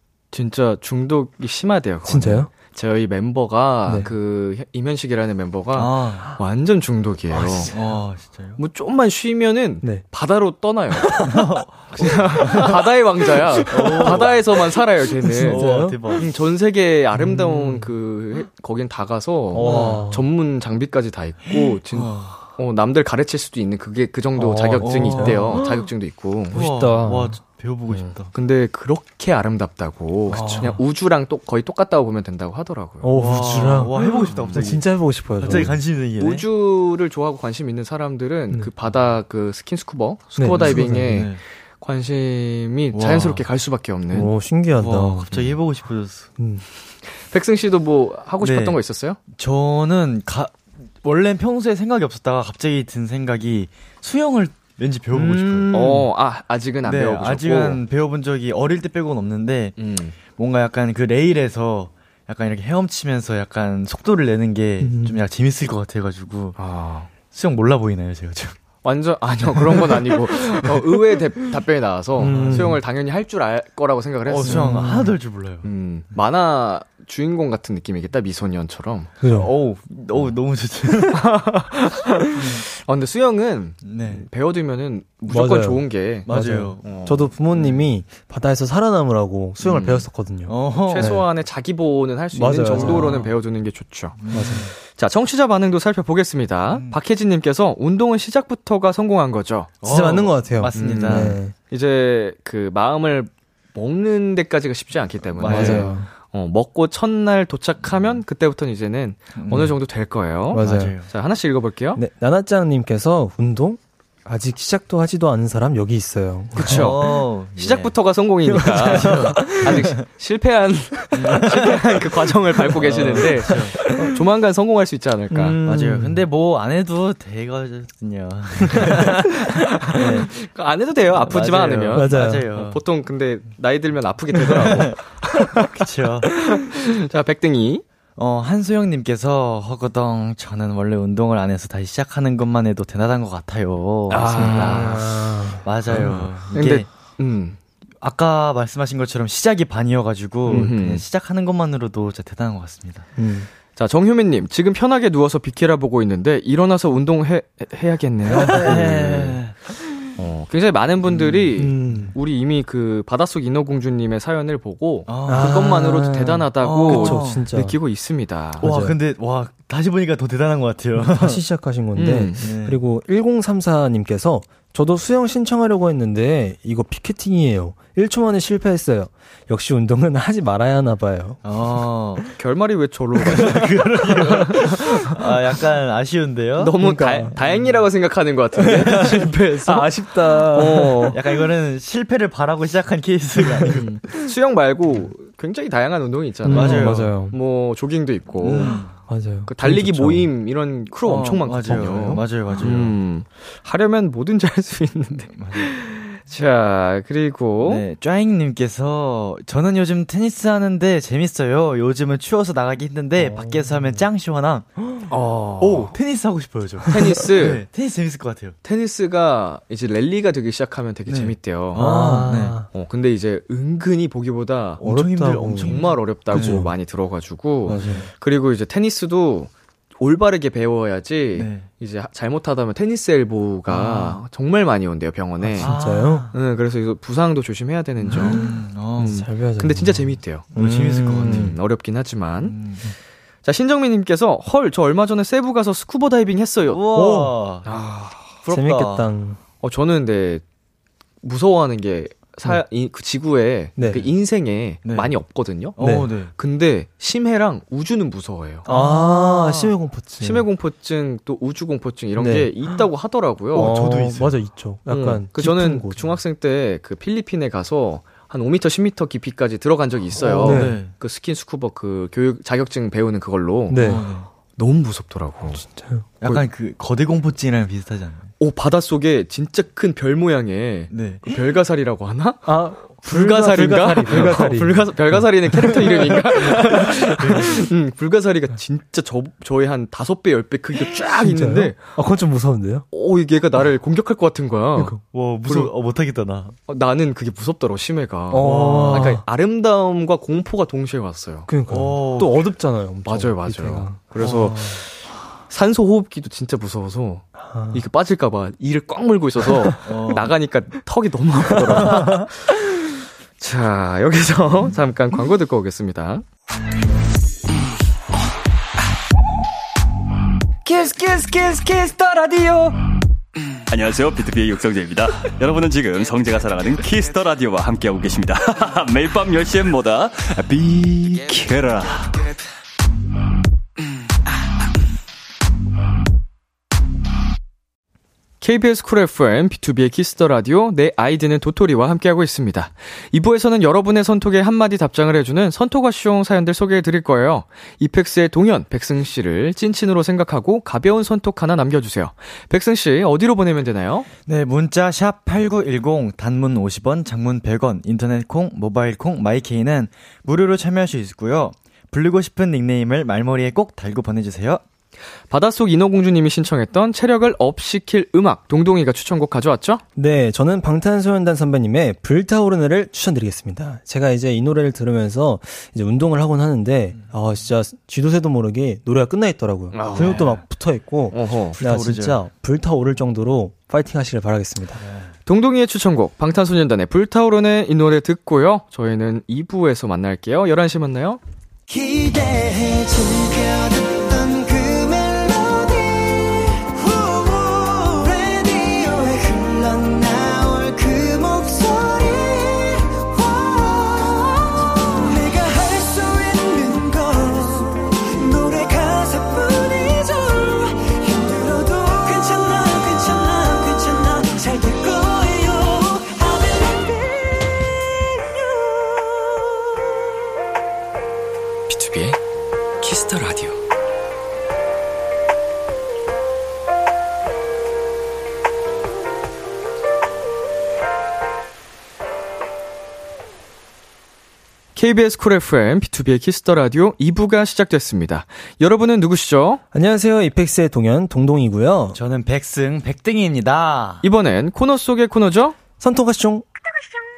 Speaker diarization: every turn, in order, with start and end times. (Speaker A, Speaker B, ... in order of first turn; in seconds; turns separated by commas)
Speaker A: 0.3-7.7, Speaker B: 2.0-2.5, Speaker C: 5.7-6.3, Speaker B: 7.3-7.9, Speaker C: 7.7-8.6, Speaker A: 8.6-11.2, Speaker B: 11.0-11.4, Speaker C: 11.2-12.8, Speaker A: 11.9-15.6, Speaker B: 13.4-14.3, Speaker C: 13.7-14.4, Speaker B: 15.2-16.2, Speaker C: 15.3-16.3, Speaker A: 16.1-26.6, Speaker B: 17.1-17.9, Speaker B: 19.5-20.2, Speaker C: 19.6-20.1, Speaker C: 21.5-22.4, Speaker B: 24.4-25.8, Speaker C: 24.8-25.7, Speaker B: 26.5-27.4, Speaker C: 26.5-28.3, Speaker A: 27.9-33.1, Speaker C: 30.3-30.8, Speaker B: 33.0-35.8, Speaker C: 33.1-36.5, Speaker A: 34.0-34.6, Speaker A: 35.5-44.3, Speaker B: 40.4-41.2, Speaker C: 40.5-41.4, Speaker C: 42.9-43.4, Speaker B: 44.1-45.4, Speaker C: 44.7-46.3, Speaker B: 46.4-46.6, Speaker A: 47.2-49.2, Speaker C: 48.4-48.8, Speaker C: 49.3-56.1, Speaker A: 55.2-57.8, Speaker B: 55.3-56.0, Speaker C: 56.8-66.6, Speaker A: 59.8-60.1, Speaker B: 64.8-65.2, Speaker A: 66.6-67.1, Speaker C: 67.3-68.5, Speaker A: 68.8-74.9, Speaker B: 72.2-72.8, Speaker C: 72.2-72.8, Speaker C: 74.3-75.7, Speaker B: 74.4-75.1, Speaker A: 75.6-79.1, Speaker B: 79.2-79.5, Speaker C: 79.3-81.3, Speaker A: 81.1-86.3, Speaker C: 83.8-84.3, Speaker B: 85.3-91.2, Speaker C: 86.2-86.8, Speaker A: 86.8-87.3, Speaker C: 87.5-87.8, Speaker A: 89.6-90.1, Speaker C: 90.5-91.2, Speaker A: 90.9-94.2, Speaker B: 92.3-93.2, Speaker C: 92.7-93.3, Speaker C: 94.2-94.7, Speaker B: 94.3-94.7, Speaker A: 94.8-99.7, Speaker C: 96.7-97.0, Speaker C: 99.8-101.4, Speaker B: 99.8-101.5, Speaker A: 100.7-112.0, Speaker C: 105.4-105.9, Speaker B: 105.4-106.1, Speaker C: 109.4-109.7, Speaker B: 110.5-111.0, Speaker C: 110.5-111.1, Speaker B: 112.0-117.0, Speaker A: 116.5-125.6, Speaker C: 116.6-117.9, Speaker B: 118.5-119.8, Speaker C: 118.8-120.0, Speaker C: 121.1-122.0, Speaker C: 122.8-123.8, Speaker B: 123.5-124.2, Speaker B: 125.3-126.2, Speaker C: 125.6-129.3, Speaker B: 128.7-129.5, Speaker A: 129.4-135.7, Speaker C: 129.9-130.3, Speaker C: 131.2-132.8, Speaker B: 131.9-132.5, Speaker C: 134.5-135.0, Speaker C: 135.6-136.3, Speaker A: 136.3-137.8, Speaker C: 138.2-146.8, Speaker A: 144.1-145.0, Speaker B: 144.3-146.3, Speaker A: 146.5-147.6, Speaker C: 148.0-153.1, Speaker A: 150.5-151.0, Speaker B: 153.2-153.5, Speaker A: 153.7-159.4, Speaker B: 158.3-158.9, Speaker C: 158.3-159.5, Speaker A: 160.2-168.7, Speaker C: 161.2-162.0, Speaker B: 161.6-162.1, Speaker C: 165.1-165.7, Speaker B: 165.2-167.8, Speaker C: 166.6-167.4, Speaker C: 168.6-171.4, Speaker B: 168.6-168.9, Speaker B: 171.0-181.5, Speaker A: 171.9-172.4, Speaker C: 172.4-172.8, Speaker C: 181.4-182.2, Speaker A: 182.3-185.2, Speaker C: 183.2-186.8, Speaker A: 186.6-191.2, Speaker B: 186.8-187.3, Speaker C: 187.4-187.6, Speaker B: 188.6-191.2, Speaker C: 191.1-194.0, Speaker A: 193.6-198.8, Speaker B: 196.4-197.3, Speaker C: 196.5-197.1, Speaker C: 198.4-198.9, Speaker B: 198.7-200.3, Speaker A: 199.4-207.8, Speaker C: 201.0-202.9, Speaker B: 201.7-201.9, Speaker C: 205.3-205.7, Speaker C: 207.6-214.8, Speaker B: 213.2-214.0, Speaker A: 215.1-215.9, Speaker C: 215.6-218.6, Speaker A: 216.9-217.6, Speaker A: 218.6-221.8, Speaker C: 221.1-222.6, Speaker B: 221.8-222.7, Speaker A: 222.7-224.8, Speaker C: 224.8-226.7, Speaker B: 224.8-226.7, Speaker A: 225.7-235.7, Speaker B: 227.7-228.1, Speaker C: 227.7-228.1, Speaker C: 231.3-231.6, Speaker C: 233.7-234.2, Speaker B: 235.4-236.3, Speaker C: 235.6-236.3, Speaker A: 236.3-238.4, Speaker C: 238.1-239.2, Speaker B: 238.2-241.6, Speaker A: 239.0-240.4, Speaker C: 240.5-241.6, Speaker A: 241.2-242.6, Speaker C: 242.4-242.8, Speaker A: 243.4-246.8, Speaker C: 246.7-247.7, Speaker B: 246.9-247.4, Speaker A: 247.6-248.2, Speaker C: 248.4-249.1, Speaker B: 248.5-249.4, Speaker A: 249.6-250.4, Speaker A: 251.2-259.4, Speaker B: 253.8-254.1, Speaker C: 254.8-255.1, Speaker C: 255.8-256.3, Speaker B: 255.8-256.1, Speaker B: 258.6-260.4, Speaker A: 260.2-263.7, Speaker B: 262.2-262.5, Speaker C: 263.5-264.4, Speaker B: 263.5-266.2, Speaker A: 264.9-274.0, Speaker C: 270.2-270.9, Speaker B: 270.4-270.8, Speaker B: 273.7-274.1, Speaker C: 273.8-274.3, Speaker A: 274.5-275.6, Speaker B: 275.5-276.1, Speaker C: 276.2-278.3, Speaker A: 278.4-291.8, Speaker C: 280.9-281.4, Speaker B: 282.4-285.8, Speaker C: 284.0-284.6, Speaker C: 286.0-287.6, Speaker B: 286.6-286.9, Speaker B: 290.9-292.8, Speaker A: 292.9-295.7, Speaker B: 294.8-295.0, Speaker C: 295.1-296.5, Speaker A: 296.7-301.5, Speaker B: 298.3-299.2, Speaker C: 298.4-299.2, Speaker B: 301.5-304.8, Speaker C: 301.7-302.5, Speaker A: 303.0-304.9, Speaker C: 304.2-304.5, Speaker A: 305.5-312.6, Speaker B: 307.4-307.8, Speaker C: 309.9-310.3, Speaker B: 311.6-312.2, Speaker A: 313.4-316.2, Speaker D: 323.7-332.1, Speaker A: 338.4-354.1, Speaker C: 354.3-364.6, Speaker A: 365.3-369.8, Speaker B: 369.9-384.8, Speaker A: 379.7-380.4, Speaker C: 379.9-380.3, Speaker A: 381.1-381.6, Speaker C: 381.5-382.2, Speaker A: 385.2-391.2, Speaker E: 391.7-417.2, Speaker A: 421.7-422.2, Speaker A: 422.8-423.6, Speaker A: 434.8-439.6, Speaker B: 439.7-442.0, Speaker C: 441.9-444.0, Speaker A: 444.0-445.6, Speaker B: 445.8-446.4